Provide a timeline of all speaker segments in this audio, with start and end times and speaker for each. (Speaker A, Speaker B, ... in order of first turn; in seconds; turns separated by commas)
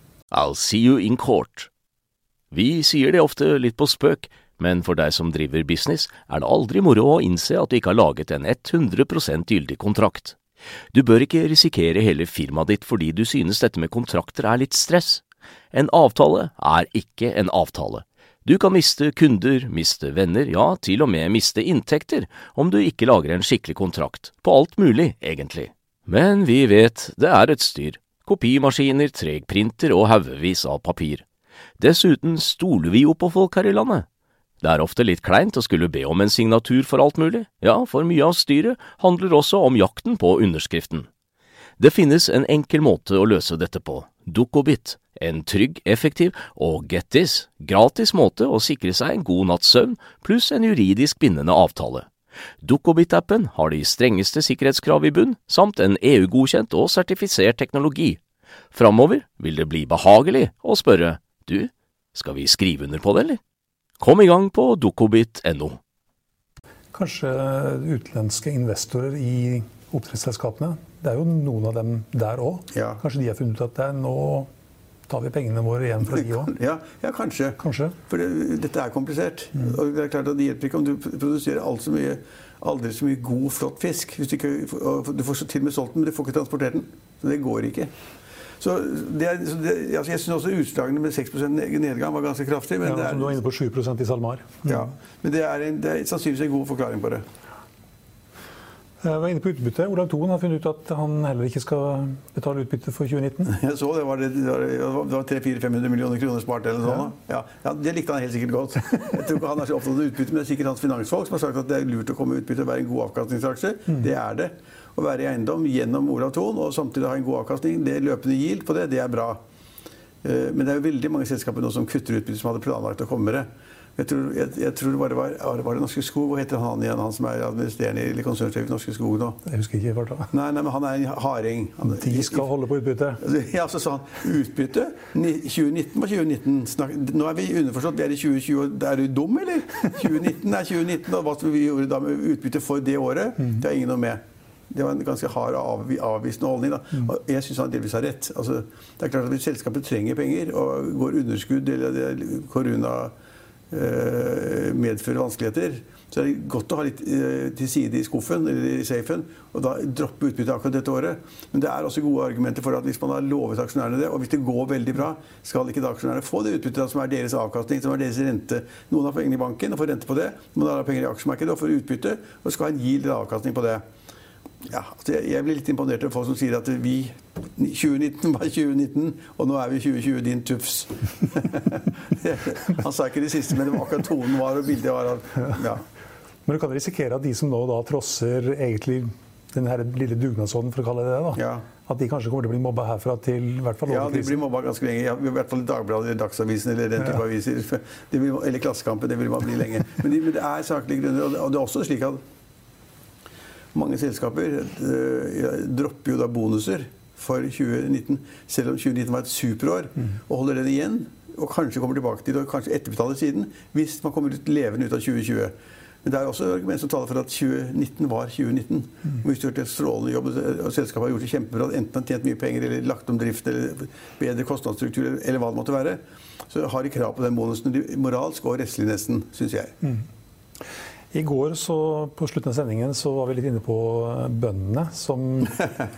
Speaker A: 0.3-1.7, Speaker A: 2.5-10.3, Speaker A: 10.9-31.2, Speaker A: 31.8-34.0, Speaker A: 34.6-41.1, Speaker A: 41.8-52.1, Speaker A: 52.6-58.2, Speaker A: 58.7-63.4, Speaker A: 64.0-65.8, Speaker B: 66.9-74.5, Speaker C: 72.7-73.0, Speaker B: 75.1-76.5, Speaker C: 76.1-87.9, Speaker B: 77.6-78.0, Speaker C: 88.6-93.4, Speaker B: 92.8-94.8, Speaker C: 94.7-97.2, Speaker B: 99.0-103.5, Speaker C: 103.5-119.4, Speaker C: 120.2-129.4, Speaker B: 129.4-130.3, Speaker C: 130.3-132.5, Speaker B: 131.9-133.2, Speaker C: 133.2-153.1, Speaker C: 153.7-173.8, Speaker C: 174.6-185.8, Speaker B: 186.4-194.4, Speaker C: 191.3-191.7, Speaker C: 193.9-202.2, Speaker C: 203.7-229.7, Speaker B: 231.1-235.7